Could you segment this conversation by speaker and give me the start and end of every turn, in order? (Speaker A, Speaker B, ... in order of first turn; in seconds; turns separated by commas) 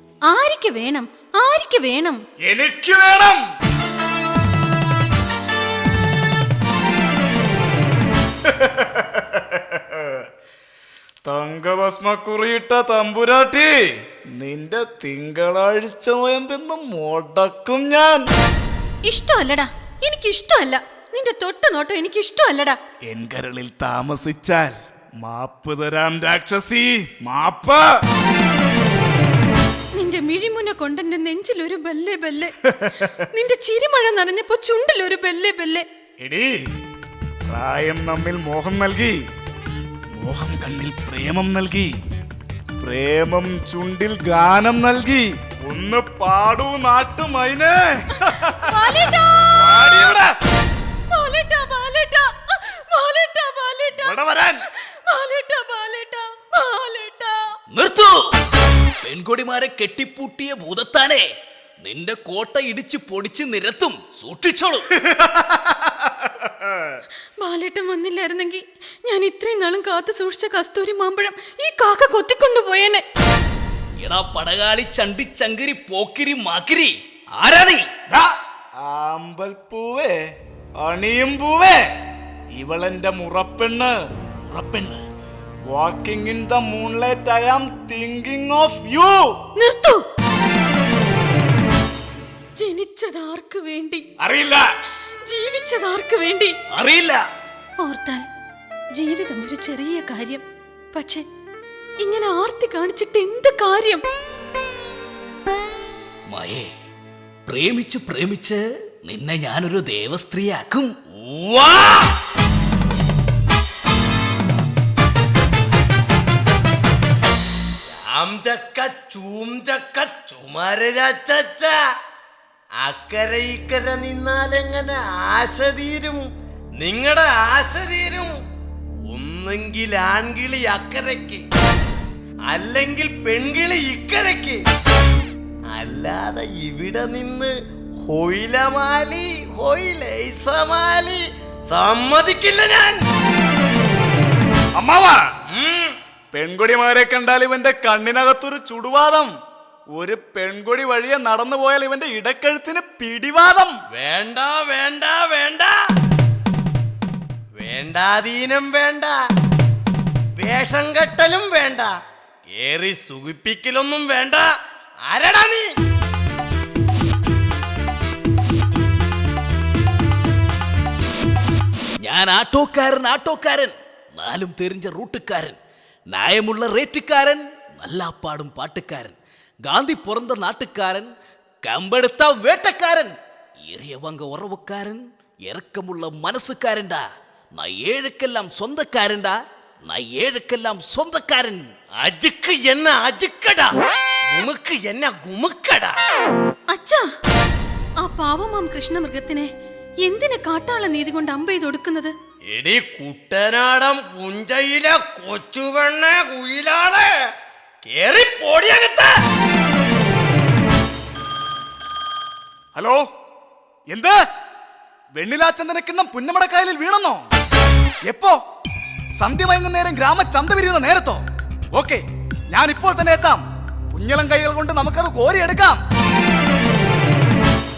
Speaker A: 0.3-2.2, Speaker B: 2.5-3.4, Speaker B: 11.3-13.7, Speaker B: 14.4-18.2, Speaker A: 19.1-22.8, Speaker B: 23.1-27.8, Speaker A: 29.9-32.5, Speaker A: 33.3-35.9, Speaker B: 36.2-36.6, Speaker B: 37.5-39.2, Speaker B: 40.2-41.9, Speaker B: 42.8-48.5, Speaker A: 48.6-50.1, Speaker B: 49.6-50.2, Speaker A: 51.1-54.2, Speaker B: 54.0-54.5, Speaker A: 55.0-57.4, Speaker C: 57.7-58.2, Speaker C: 59.0-61.3, Speaker C: 61.8-64.9, Speaker A: 67.4-73.0, Speaker C: 74.0-77.9, Speaker B: 78.9-80.1, Speaker B: 80.8-81.8, Speaker B: 82.5-83.9, Speaker C: 84.5-85.0, Speaker B: 85.7-89.2, Speaker A: 89.6-90.0, Speaker A: 92.6-94.0, Speaker B: 94.3-94.6, Speaker A: 95.2-96.5, Speaker C: 96.7-97.2, Speaker A: 97.8-98.2, Speaker A: 99.0-101.2, Speaker A: 102.0-104.0, Speaker C: 106.3-106.7, Speaker C: 107.5-110.9, Speaker D: 111.2-112.1, Speaker D: 117.9-121.7, Speaker D: 122.8-126.2, Speaker D: 126.8-128.3, Speaker D: 129.1-131.4, Speaker D: 132.5-134.6, Speaker D: 135.7-137.5, Speaker D: 138.0-143.0, Speaker B: 144.8-145.2, Speaker D: 145.5-145.9, Speaker B: 146.3-149.3, Speaker B: 150.0-153.7, Speaker D: 153.9-155.7, Speaker D: 157.6-159.1, Speaker D: 160.4-161.9, Speaker D: 162.5-164.5, Speaker D: 165.1-165.7, Speaker C: 172.0-175.6, Speaker C: 176.1-181.1, Speaker C: 181.6-183.1, Speaker C: 183.7-187.0, Speaker C: 187.6-191.7, Speaker D: 192.0-193.8, Speaker D: 194.3-196.0, Speaker A: 196.7-197.0, Speaker A: 198.0-199.5, Speaker A: 200.0-202.1, Speaker D: 202.5-207.1, Speaker D: 207.9-209.1, Speaker B: 212.8-213.0, Speaker B: 213.9-214.2, Speaker B: 215.2-217.2, Speaker B: 218.1-218.4, Speaker B: 219.2-221.2, Speaker B: 221.8-222.0, Speaker B: 222.5-223.4, Speaker B: 223.9-225.8